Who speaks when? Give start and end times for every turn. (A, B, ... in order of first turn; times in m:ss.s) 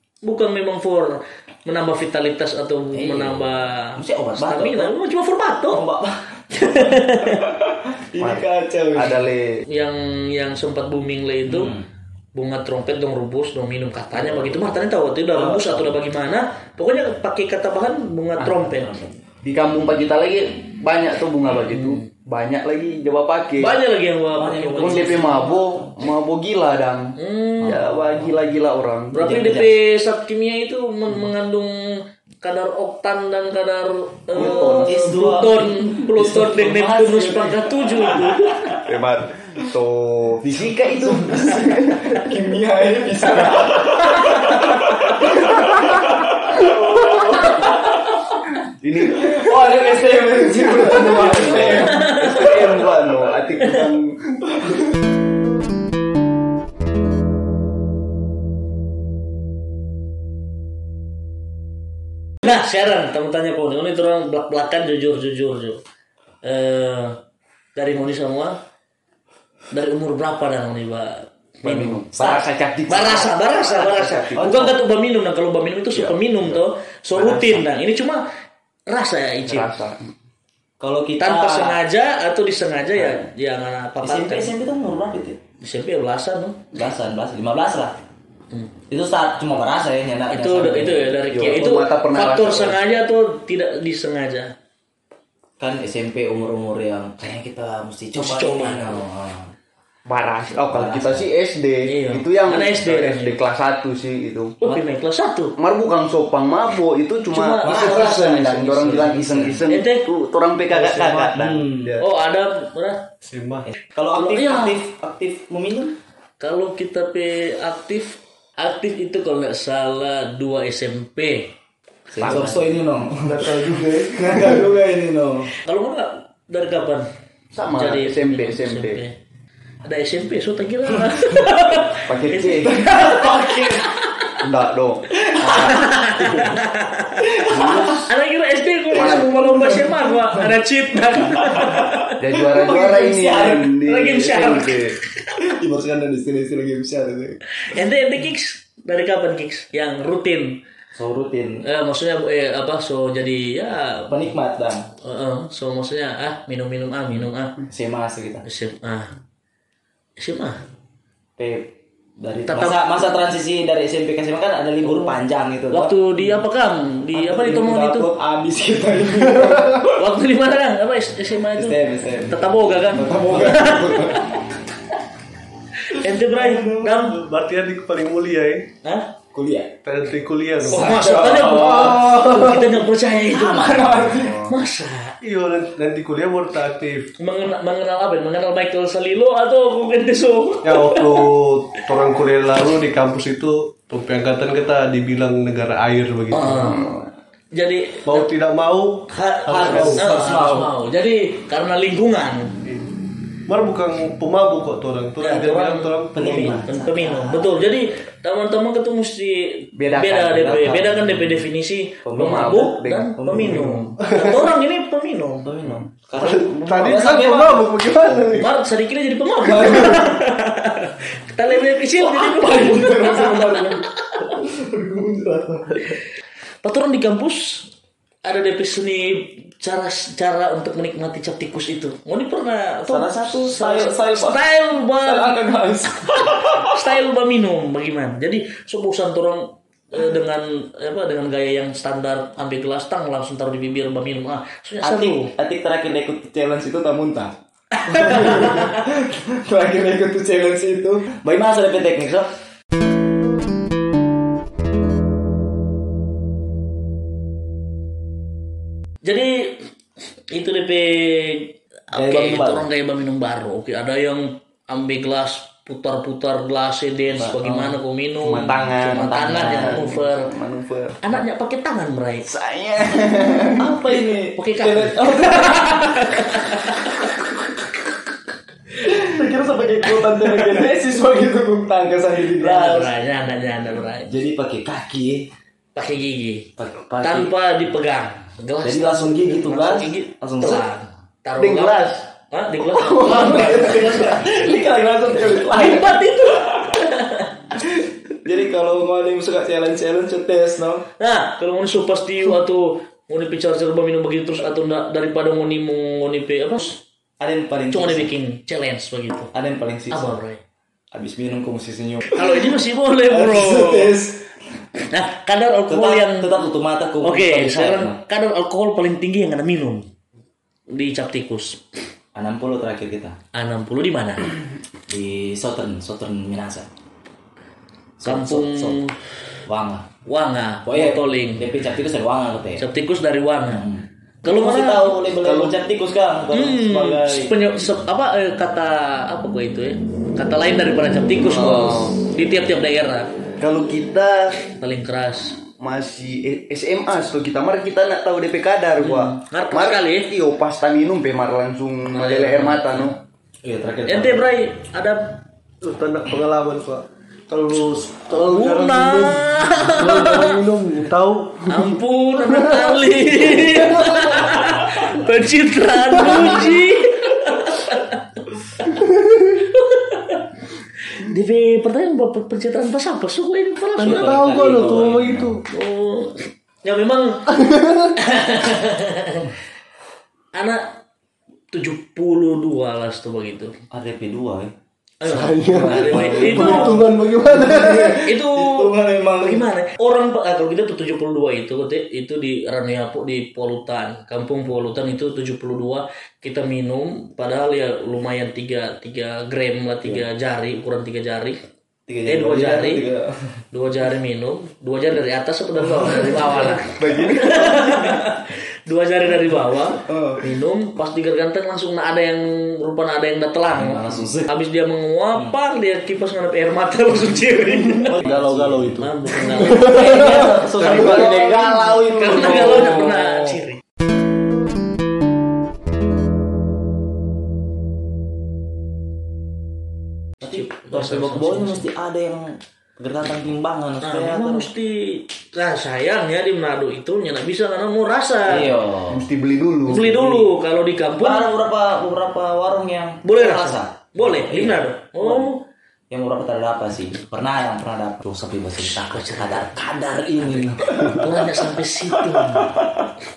0:00.2-0:05.8 A
0:02.9-0:04.9 B
0:05.7-0:09.2 B
0:06.6-0:07.4 A
0:08.9-0:09.6 C
0:09.7-0:11.7 A
0:11.4-0:11.8 B
0:12.3-0:19.0 A
0:14.1-0:14.6 B
0:15.3-0:15.9 B
0:18.4-0:19.1 B
0:19.4-0:23.7 C
0:21.5-0:22.0 A
0:23.6-0:25.4 A
0:24.3-0:26.0 B
0:24.8-0:29.2 C
0:27.2-0:27.8 A
0:27.6-0:28.4 B
0:29.1-0:29.7 B
0:29.1-0:38.7 A
0:34.3-0:38.8 B
0:34.4-0:34.8 C
0:38.9-0:43.9 C
0:40.4-0:48.1 B
0:44.1-0:44.6 A
0:46.6-0:47.4 C
0:48.7-0:54.7 C
0:49.1-0:53.2 B
0:51.8-0:52.6 A
1:02.4-1:05.8 A
1:06.4-1:07.2 A
1:07.7-1:08.6 A
1:09.7-1:18.2 A
1:11.6-1:14.7 C
1:14.2-1:14.7 B
1:17.1-1:17.6 B
1:18.9-1:19.7 A
1:19.4-1:20.1 C
1:20.8-1:21.8 B
1:21.2-1:24.5 A
1:24.0-1:25.4 B
1:25.6-1:26.7 A
1:26.7-1:28.0 B
1:28.9-1:31.2 B
1:30.3-1:34.5 A
1:31.3-1:32.8 C
1:35.6-1:39.5 B
1:38.2-1:39.0 A
1:40.1-1:44.6 C
1:40.6-1:41.3 B
1:41.9-1:43.4 A
1:44.6-1:45.5 A
1:45.6-1:52.0 C
1:47.3-1:49.1 A
1:47.6-1:49.6 B
1:49.7-1:50.1 A
1:50.9-1:52.0 B
1:52.0-1:53.1 A
1:53.2-1:53.6 D
1:53.6-1:55.9 B
1:54.1-1:54.8 A
1:56.4-2:01.5 A
2:02.1-2:05.5 B
2:02.2-2:02.6 A
2:02.2-2:02.6 C
2:03.2-2:04.6 D
2:05.6-2:07.1 A
2:07.5-2:09.0 C
2:07.7-2:09.1 A
2:09.8-2:14.4 A
2:11.1-2:11.5 B
2:12.0-2:12.7 C
2:12.4-2:13.9 B
2:14.4-2:15.8 C
2:15.2-2:16.5 B
2:15.4-2:22.1 A
2:17.2-2:18.0 B
2:17.5-2:18.0 C
2:18.9-2:19.5 C
2:19.0-2:20.4 B
2:21.4-2:21.7 B
2:22.2-2:24.9 C
2:22.3-2:23.7 B
2:23.8-2:25.0 A
2:25.3-2:27.4 B
2:27.6-2:30.6 A
2:30.9-2:31.6 B
2:31.6-2:34.1 A
2:34.1-2:34.9 B
2:35.0-2:37.5 A
2:37.7-2:38.4 B
2:38.4-2:39.1 A
2:40.2-2:40.6 A
2:41.4-2:46.2 B
2:42.5-2:42.8 A
2:45.7-2:48.1 A
2:47.1-2:50.0 B
2:49.3-2:49.8 D
2:49.9-2:51.8 A
2:51.5-2:54.5 B
2:52.3-2:54.4 A
2:55.9-2:57.2 A
2:56.3-2:57.0 B
2:57.1-2:58.7 D
2:58.8-2:59.1 A
2:59.3-2:59.7 B
2:59.8-3:01.0 D
3:00.7-3:02.8 B
3:00.7-3:05.2 A
3:01.6-3:02.1 D
3:03.3-3:04.4 B
3:04.1-3:04.5 C
3:05.2-3:07.1 D
3:07.2-3:11.2 A
3:10.6-3:16.8 D
3:16.3-3:16.8 A
3:16.5-3:17.0 C
3:17.5-3:18.3 A
3:18.0-3:20.0 D
3:19.1-3:22.6 A
3:19.5-3:20.7 B
3:23.5-3:26.6 D
3:25.2-3:35.8 A
3:26.1-3:27.5 B
3:29.7-3:30.8 C
3:30.4-3:31.5 B
3:32.0-3:33.7 B
3:32.2-3:33.9 C
3:34.0-3:34.4 D
3:35.6-3:38.2 B
3:36.1-3:38.5 D
3:38.4-3:44.4 A
3:39.5-3:40.0 B
3:42.0-3:46.0 B
3:46.6-3:47.7 A
3:48.2-3:55.3 A
3:52.9-3:56.8 B
3:56.3-4:05.3 A
4:04.8-4:12.3 B
4:07.8-4:08.8 A
4:19.0-4:19.7 A
4:20.3-4:30.3 A
4:21.9-4:22.6 B
4:27.2-4:27.8 B
4:28.2-4:31.0 C
4:29.0-4:29.9 B
4:31.0-4:32.3 A
4:32.3-4:33.7 C
4:33.5-4:37.3 B
4:34.2-4:37.0 A
4:38.8-4:42.9 B
4:39.9-4:40.4 A
4:42.4-4:44.1 A
4:44.1-4:45.3 B
4:45.7-4:46.5 A
4:46.6-4:47.3 B
4:47.0-4:54.6 A
4:48.6-4:50.7 B
4:51.4-4:52.0 C
4:52.6-4:56.7 B
4:55.2-4:57.3 A
4:57.6-5:00.8 B
5:01.0-5:06.8 A
5:07.2-5:08.1 B
5:07.7-5:09.3 A
5:09.3-5:10.1 B
5:09.9-5:10.4 A
5:10.9-5:12.4 B
5:12.1-5:14.0 A
5:13.1-5:14.3 B
5:14.9-5:16.3 A
5:15.7-5:18.0 B
5:17.0-5:19.8 A
5:20.7-5:21.6 A
5:22.1-5:23.2 B
5:23.3-5:24.3 A
5:24.9-5:26.7 B
5:28.0-5:28.8 B
5:28.0-5:29.0 A
5:29.5-5:29.9 B
5:30.0-5:31.4 A
5:30.6-5:32.6 B
5:32.6-5:33.6 A
5:33.5-5:37.3 B
5:34.2-5:35.0 A
5:35.2-5:35.5 C
5:36.3-5:43.1 A
5:41.2-5:42.0 C
5:43.4-5:44.4 C
5:44.5-5:45.4 A
5:45.4-5:53.0 C
5:48.8-5:50.1 A
5:52.0-5:52.9 B
5:53.4-5:54.2 B
5:53.9-5:55.2 A
5:55.6-6:04.2 D
5:58.1-6:00.4 A
6:01.5-6:10.3 A
6:06.0-6:06.3 D
6:10.9-6:15.0 A
6:13.8-6:15.4 D
6:13.8-6:15.4 B
6:15.5-6:17.4 A
6:17.3-6:17.9 D
6:18.0-6:19.3 A
6:20.3-6:20.8 A
6:21.5-6:23.5 A
6:23.7-6:24.5 B
6:25.0-6:26.9 A
6:25.0-6:28.1 D
6:25.4-6:29.4 B
6:28.0-6:41.4 A
6:41.9-6:43.2 B
6:42.1-6:42.8 A
6:43.5-6:58.2 A
6:45.6-6:46.6 B
6:46.6-6:47.9 C
6:49.8-6:50.2 B
6:53.5-6:54.3 B
6:57.7-7:03.1 B
6:58.0-7:02.1 D
6:58.7-7:03.6 A
7:00.7-7:02.8 C
7:10.2-7:11.7 A
7:10.2-7:14.5 B
7:13.8-7:18.5 A
7:18.3-7:19.1 B
7:18.9-7:19.9 C
7:19.7-7:21.3 A
7:19.9-7:20.3 B
7:21.0-7:25.3 B
7:23.0-7:25.4 A
7:25.9-7:32.9 B
7:28.6-7:29.6 A
7:30.2-7:32.6 A